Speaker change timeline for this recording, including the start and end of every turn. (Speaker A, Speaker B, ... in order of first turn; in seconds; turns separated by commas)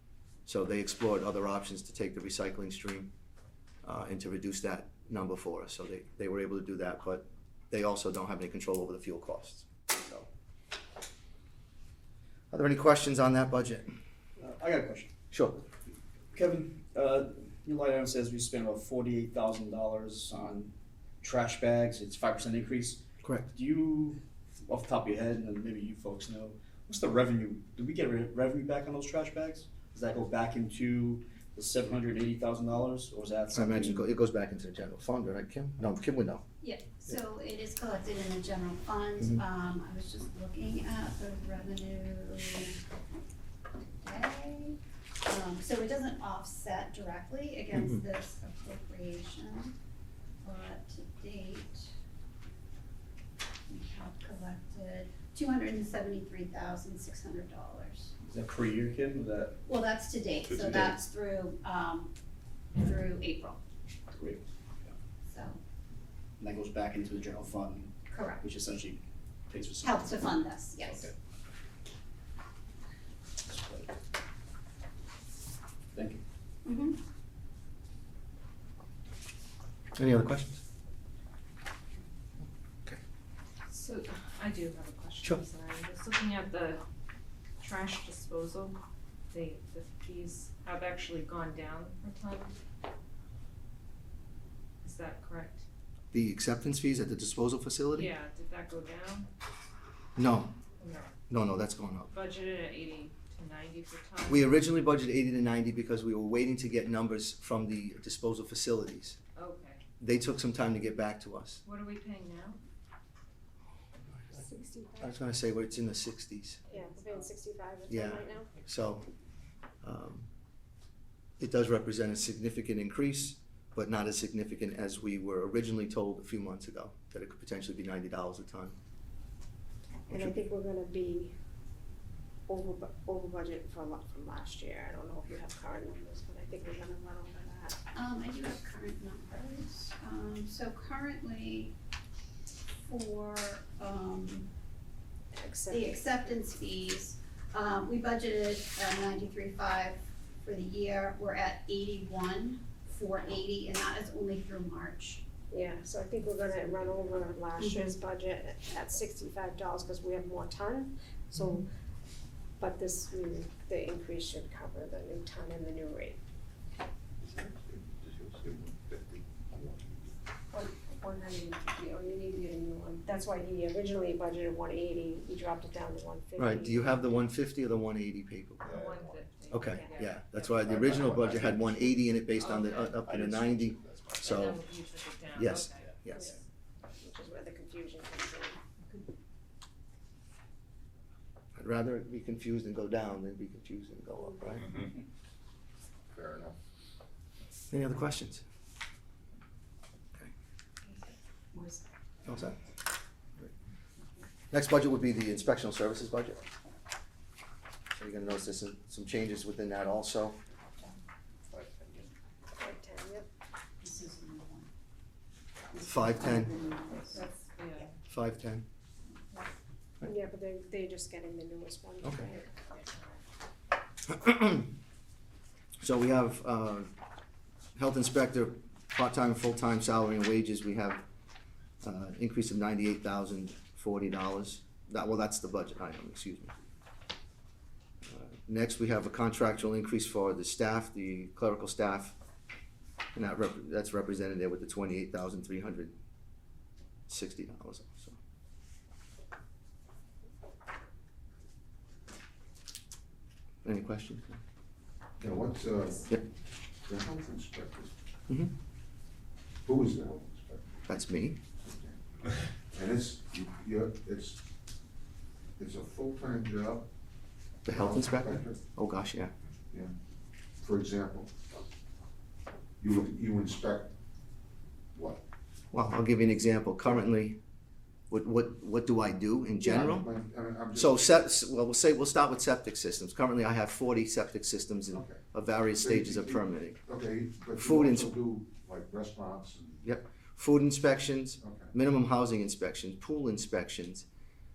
Speaker A: 0.5-3.1, Speaker A: 3.8-10.3, Speaker A: 12.5-13.9, Speaker B: 14.4-15.1, Speaker A: 15.3-15.6, Speaker B: 16.3-23.0, Speaker A: 23.2-23.5, Speaker B: 23.5-34.0, Speaker A: 33.5-36.4, Speaker C: 36.6-42.8, Speaker C: 44.0-49.7, Speaker C: 50.4-51.9, Speaker C: 53.7-58.1, Speaker B: 58.2-59.6, Speaker C: 59.6-62.1, Speaker C: 62.8-63.6, Speaker B: 64.1-64.9, Speaker C: 65.2-65.6, Speaker B: 66.4-70.1, Speaker C: 68.1-68.4, Speaker C: 69.8-71.1, Speaker B: 70.8-71.1, Speaker B: 73.4-73.9, Speaker B: 75.9-76.2, Speaker C: 76.6-77.0, Speaker A: 79.9-80.6, Speaker D: 83.7-86.8, Speaker D: 87.6-88.8, Speaker D: 89.3-92.5, Speaker D: 94.8-95.6, Speaker A: 96.1-98.1, Speaker D: 97.9-99.3, Speaker A: 100.2-100.5, Speaker D: 100.8-101.1, Speaker A: 101.3-102.1, Speaker D: 102.1-104.5, Speaker A: 104.3-109.2, Speaker D: 109.3-109.8, Speaker A: 110.0-111.6, Speaker D: 111.6-112.6, Speaker E: 114.3-115.1, Speaker A: 115.0-116.6, Speaker D: 116.7-117.3, Speaker E: 116.7-118.5, Speaker A: 117.9-119.1, Speaker A: 119.8-120.3, Speaker A: 121.4-128.8, Speaker E: 130.1-131.3, Speaker E: 132.5-137.8, Speaker C: 137.9-141.7, Speaker C: 142.7-144.5, Speaker E: 145.3-146.4, Speaker C: 145.7-155.2, Speaker E: 155.5-161.7, Speaker C: 157.6-157.9, Speaker E: 162.6-166.2, Speaker F: 167.2-169.9, Speaker E: 170.5-177.1, Speaker A: 176.4-178.7, Speaker D: 178.6-180.7, Speaker F: 178.6-179.1, Speaker A: 179.5-184.6, Speaker F: 180.6-181.9, Speaker D: 182.3-183.0, Speaker F: 183.0-184.2, Speaker D: 184.2-186.4, Speaker A: 185.3-186.3, Speaker E: 186.9-188.6, Speaker A: 191.6-194.8, Speaker F: 196.1-196.6, Speaker A: 197.7-198.4, Speaker A: 202.2-202.6, Speaker A: 204.5-206.4, Speaker A: 207.9-210.4, Speaker E: 212.6-213.3, Speaker C: 213.8-214.7, Speaker A: 215.8-216.5, Speaker C: 215.8-217.2, Speaker D: 217.1-217.9, Speaker A: 218.1-218.6, Speaker E: 220.0-223.1, Speaker A: 222.0-222.3, Speaker A: 224.1-224.7, Speaker A: 225.8-226.9, Speaker A: 227.8-231.0, Speaker A: 231.8-236.5, Speaker A: 238.1-242.2, Speaker A: 243.1-245.9, Speaker A: 247.1-248.2, Speaker A: 253.6-254.4, Speaker F: 255.2-256.2, Speaker F: 256.8-257.9, Speaker F: 259.6-260.8, Speaker A: 260.9-261.4, Speaker F: 261.6-261.9, Speaker F: 262.7-264.4, Speaker F: 265.6-266.9, Speaker A: 267.6-269.3, Speaker F: 267.7-268.6, Speaker F: 270.6-271.3, Speaker F: 272.8-273.9, Speaker F: 274.9-275.2, Speaker A: 275.7-277.4, Speaker A: 278.1-280.1, Speaker F: 279.6-281.0, Speaker A: 280.7-286.8, Speaker F: 284.9-285.2, Speaker F: 285.8-289.8, Speaker A: 287.6-288.1, Speaker A: 289.8-294.1, Speaker F: 291.4-291.7